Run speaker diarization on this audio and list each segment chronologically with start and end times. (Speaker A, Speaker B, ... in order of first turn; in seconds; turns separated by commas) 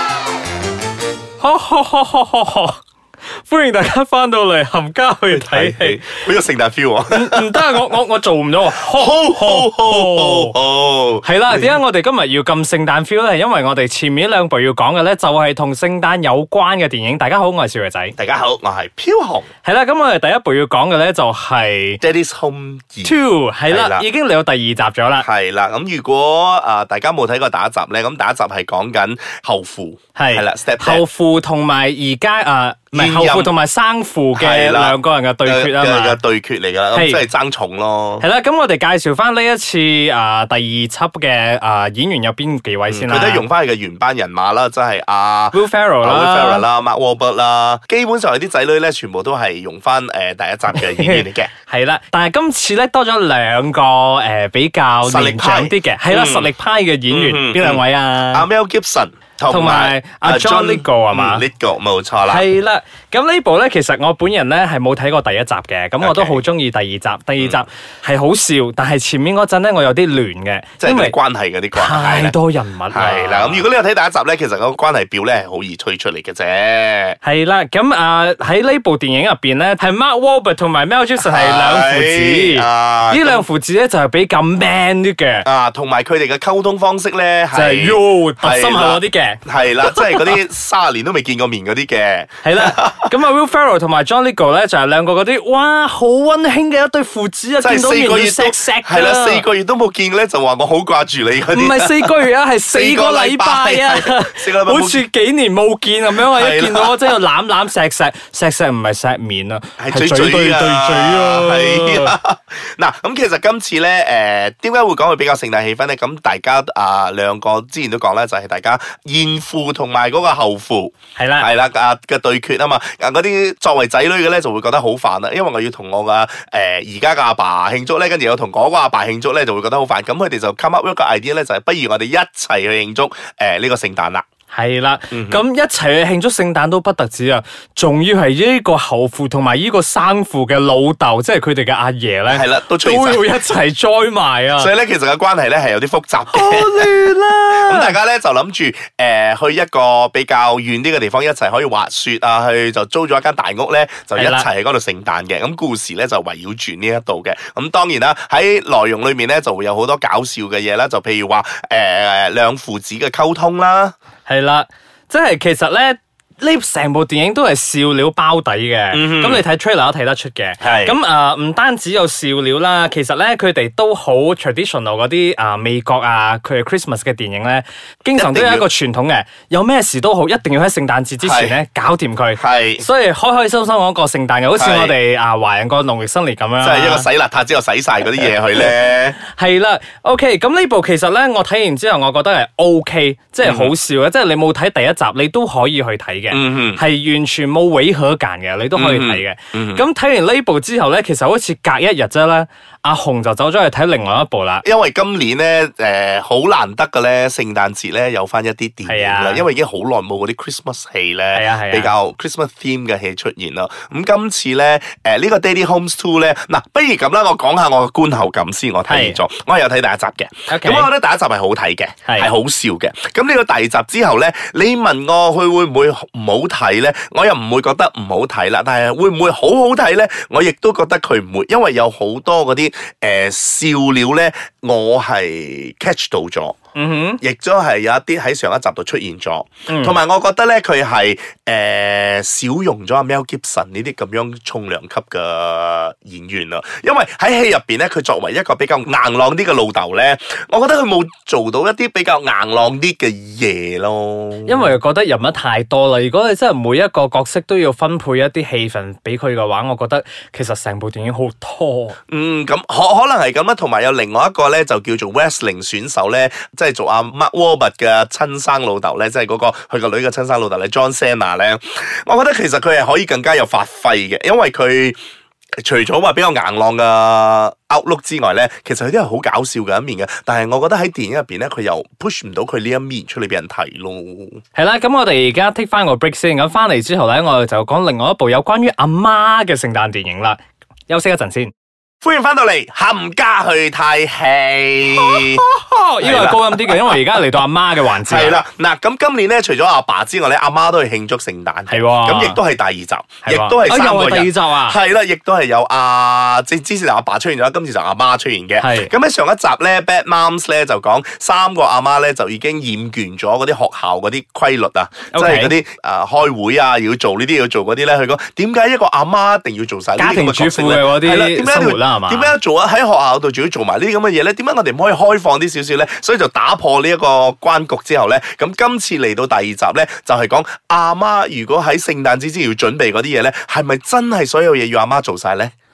Speaker A: 1.4-2.8, Speaker A: 3.4-6.2, Speaker B: 5.3-7.8, Speaker A: 7.1-10.5, Speaker B: 8.7-11.8, Speaker A: 11.2-18.1, Speaker B: 18.2-19.4, Speaker A: 19.6-22.0, Speaker B: 22.0-23.1, Speaker A: 23.0-25.3, Speaker B: 23.7-24.1, Speaker B: 25.2-31.0, Speaker A: 30.1-36.2, Speaker B: 32.9-33.5, Speaker B: 34.4-38.2, Speaker A: 36.9-37.2, Speaker A: 38.2-43.5, Speaker B: 42.9-51.5, Speaker A: 45.5-46.6, Speaker A: 50.7-58.5, Speaker B: 55.0-56.5, Speaker B: 57.1-62.5, Speaker A: 59.5-61.4, Speaker A: 62.2-71.2, Speaker B: 66.0-66.4, Speaker B: 70.8-72.3, Speaker A: 71.7-73.6, Speaker B: 72.9-77.2, Speaker A: 77.2-85.5, Speaker B: 81.2-83.4, Speaker B: 85.4-93.1, Speaker A: 87.5-90.3, Speaker A: 92.4-99.4, Speaker B: 97.6-102.1, Speaker A: 101.5-112.2, Speaker B: 102.7-105.0, Speaker B: 106.2-107.2, Speaker B: 109.8-134.2, Speaker A: 121.2-121.5, Speaker A: 134.5-144.7, Speaker B: 135.1-135.4, Speaker B: 142.3-143.6, Speaker B: 144.6-146.9, Speaker A: 146.3-147.9, Speaker B: 147.5-163.9, Speaker A: 154.1-154.5, Speaker A: 164.2-187.1, Speaker B: 168.9-169.4, Speaker B: 170.6-170.9, Speaker B: 178.1-178.7, Speaker B: 181.2-181.6, Speaker B: 182.4-182.8, Speaker B: 184.6-184.9, Speaker B: 186.6-189.2, Speaker A: 188.2-204.6, Speaker B: 193.4-193.7, Speaker B: 196.3-196.8, Speaker B: 198.7-199.8, Speaker B: 204.6-236.5, Speaker A: 208.9-209.4, Speaker A: 211.3-211.9, Speaker A: 218.9-219.2, Speaker A: 220.5-220.9, Speaker A: 222.0-222.3, Speaker A: 236.7-237.2, Speaker B: 237.2-254.7, Speaker A: 239.7-240.0, Speaker A: 254.4-262.0, Speaker B: 262.1-275.0, Speaker B: 275.6-284.4, Speaker A: 284.5-290.4, Speaker A: 290.9-291.5, Speaker B: 292.0-295.4, Speaker A: 294.9-298.4, Speaker B: 296.0-297.2, Speaker B: 298.0-335.5, Speaker A: 301.7-302.4, Speaker A: 303.2-304.8, Speaker A: 308.6-308.9, Speaker A: 315.1-315.6, Speaker A: 320.0-322.3